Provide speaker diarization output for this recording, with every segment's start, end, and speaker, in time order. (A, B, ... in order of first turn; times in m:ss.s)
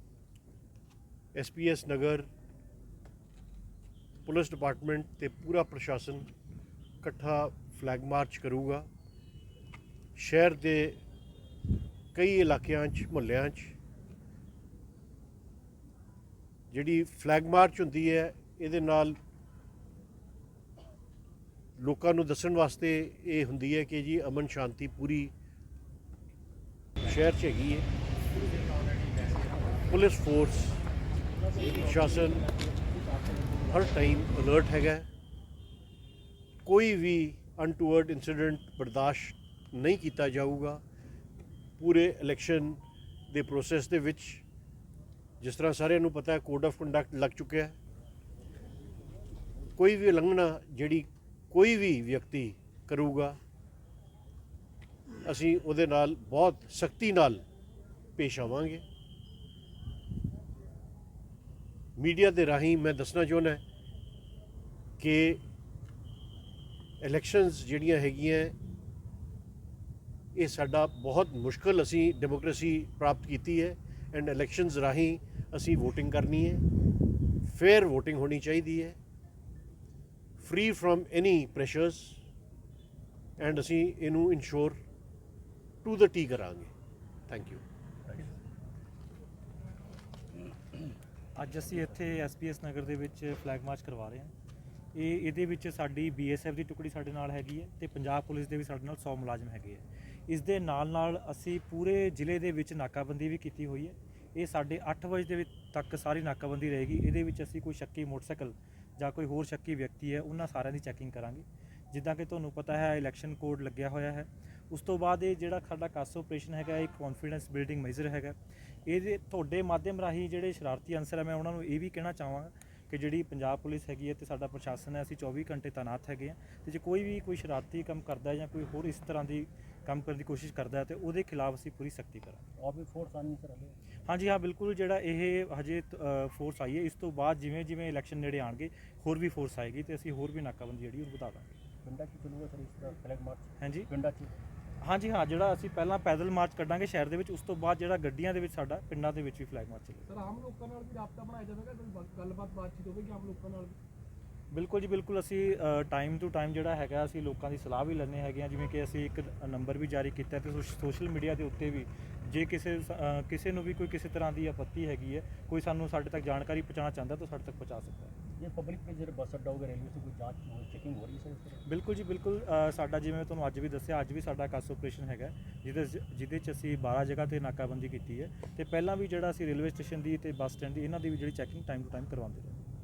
0:01.4-0:02.3 A
0:04.3-0:06.3 A
0:07.0-0:08.9 A
0:10.2-0:11.0 A
0:12.1-0:13.8 A
0:16.7-0:19.2 A
0:21.8-0:25.3 A
0:27.0-0:27.9 A
0:28.5-0:29.8 B
0:29.8-0:30.8 A
0:31.4-0:34.1 B
0:31.6-0:32.5 A
0:33.6-0:35.1 A
0:36.6-0:40.8 A
0:41.8-0:44.4 A
0:45.4-0:47.8 A
0:49.8-0:53.4 A
0:55.2-0:57.4 A
0:58.2-0:58.8 A
1:02.0-1:03.6 A
1:05.0-1:05.4 A
1:07.0-1:08.6 A
1:10.4-1:16.7 A
1:17.4-1:19.0 A
1:20.4-1:22.2 A
1:23.4-1:24.8 A
1:25.8-1:26.7 A
1:27.3-1:27.6 A
1:31.4-1:34.3 C
1:34.9-1:58.4 C
1:58.9-2:12.4 C
2:12.6-2:13.8 B
2:14.1-2:21.5 C
2:21.8-2:24.4 B
2:23.6-2:23.9 C
2:24.8-2:30.1 C
2:30.1-2:33.8 D
2:34.5-2:48.2 C
2:48.4-2:51.6 B
2:51.7-3:02.6 C